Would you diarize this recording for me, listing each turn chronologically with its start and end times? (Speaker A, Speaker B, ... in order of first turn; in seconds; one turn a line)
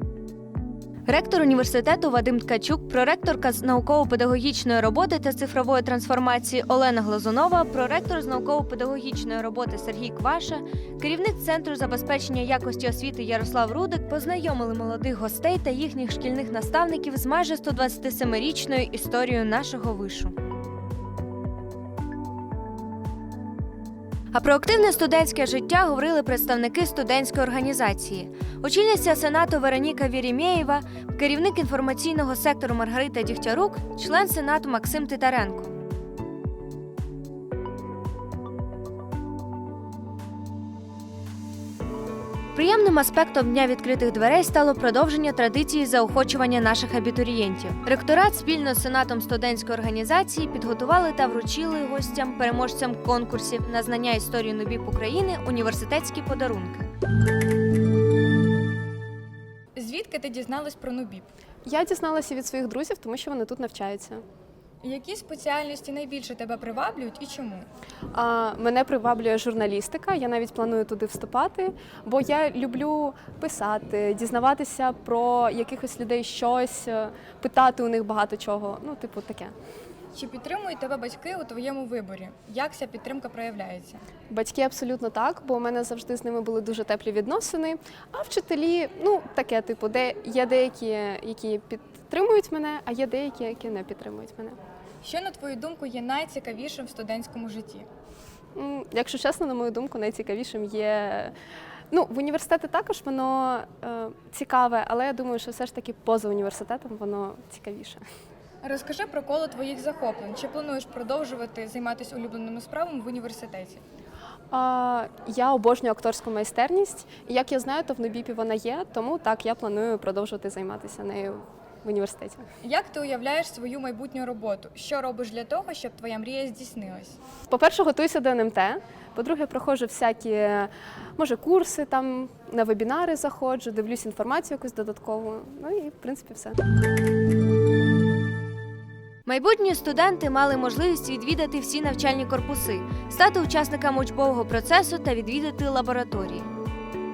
Speaker A: 1.1-20.3
Speaker A: 24.3-35.7
Speaker A: 42.5-56.9
Speaker B: 59.7-61.3
Speaker C: 61.6-64.2
Speaker B: 64.8-67.7
Speaker C: 68.1-79.5
Speaker B: 80.1-84.0
Speaker C: 84.3-94.5
Speaker B: 95.0-97.9
Speaker C: 98.5-101.3
Speaker C: 101.9-108.0
Speaker B: 108.6-113.8
Speaker C: 114.5-122.4
Speaker B: 122.6-127.2
Speaker C: 127.5-136.6
Speaker A: 139.2-146.5